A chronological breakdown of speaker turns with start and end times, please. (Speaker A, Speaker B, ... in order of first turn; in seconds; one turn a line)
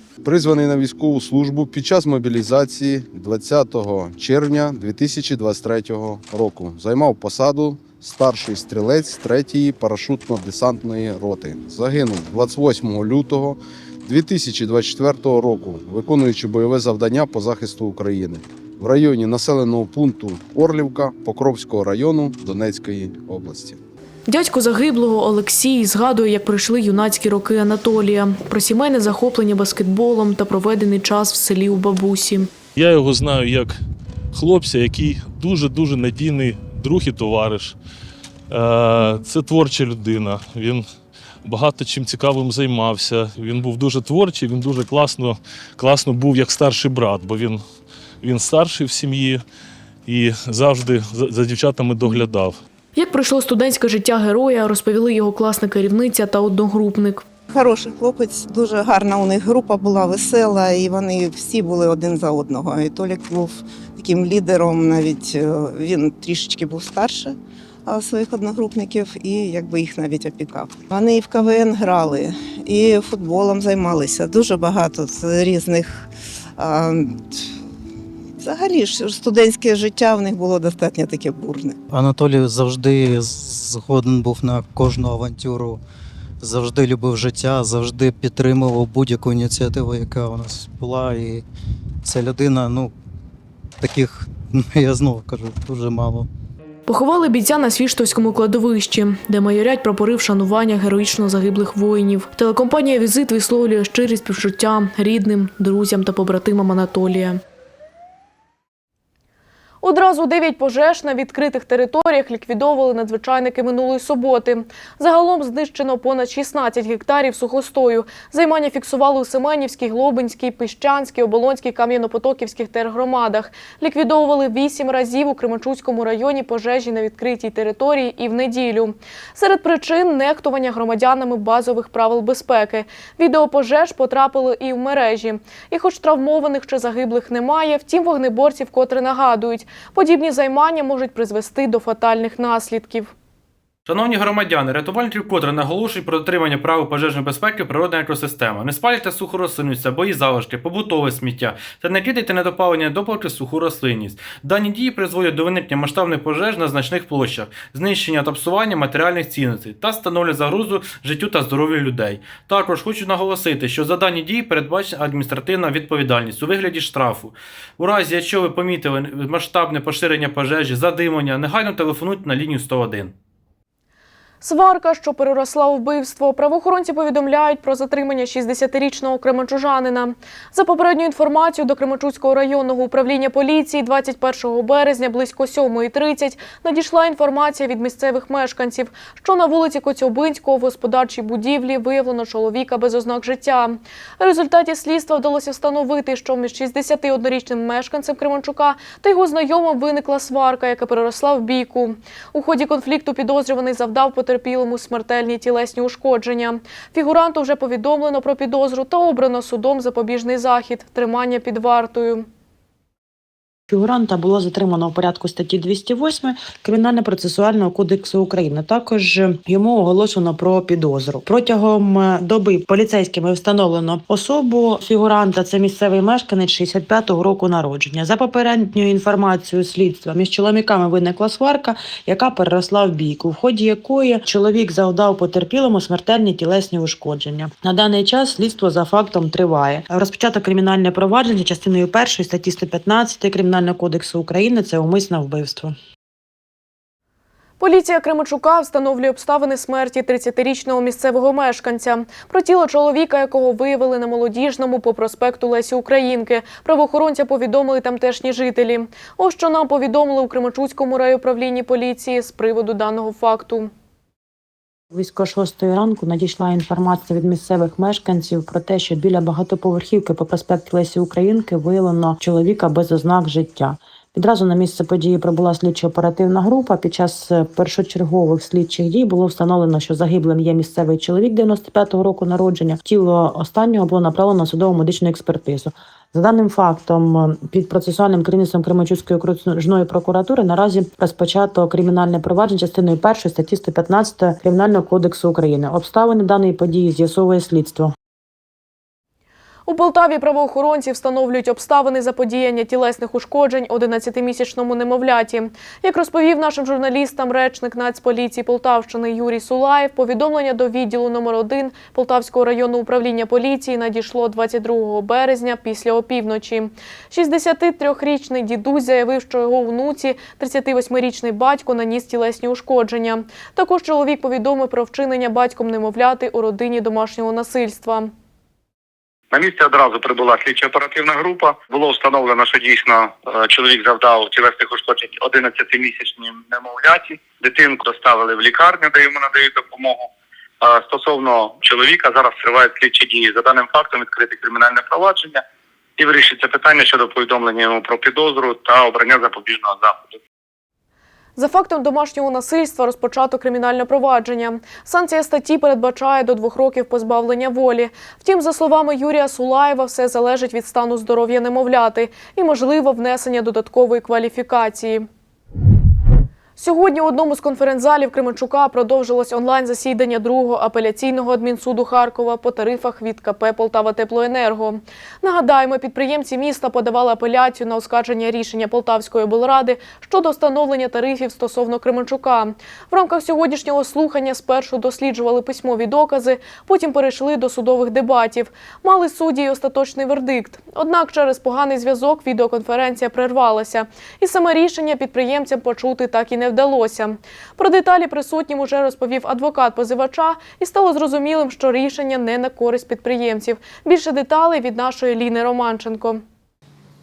Speaker A: 0.2-23.8
Speaker B: 24.3-32.5
Speaker C: 32.8-33.8
Speaker C: 34.3-37.8
Speaker C: 38.5-40.9
Speaker C: 41.5-47.6
Speaker C: 48.2-49.4
Speaker C: 50.1-52.6
Speaker B: 53.0-57.2
Speaker D: 57.5-77.3
Speaker D: 78.4-81.8
Speaker E: 81.9-85.8
Speaker E: 86.4-91.5
Speaker E: 92.0-92.9
Speaker E: 93.8-96.3
Speaker B: 96.9-107.4
Speaker B: 109.8-143.1
Speaker F: 143.9-173.1
Speaker B: 174.4-212.3
Speaker G: 213.7-245.8
Speaker B: 247.6-263.7
Speaker G: 264.9-297.9
Speaker B: 299.7-328.1
Speaker H: 329.3-340.1
Speaker H: 340.6-345.4
Speaker H: 346.0-350.2
Speaker B: 351.4-365.1
Speaker B: 366.6-406.2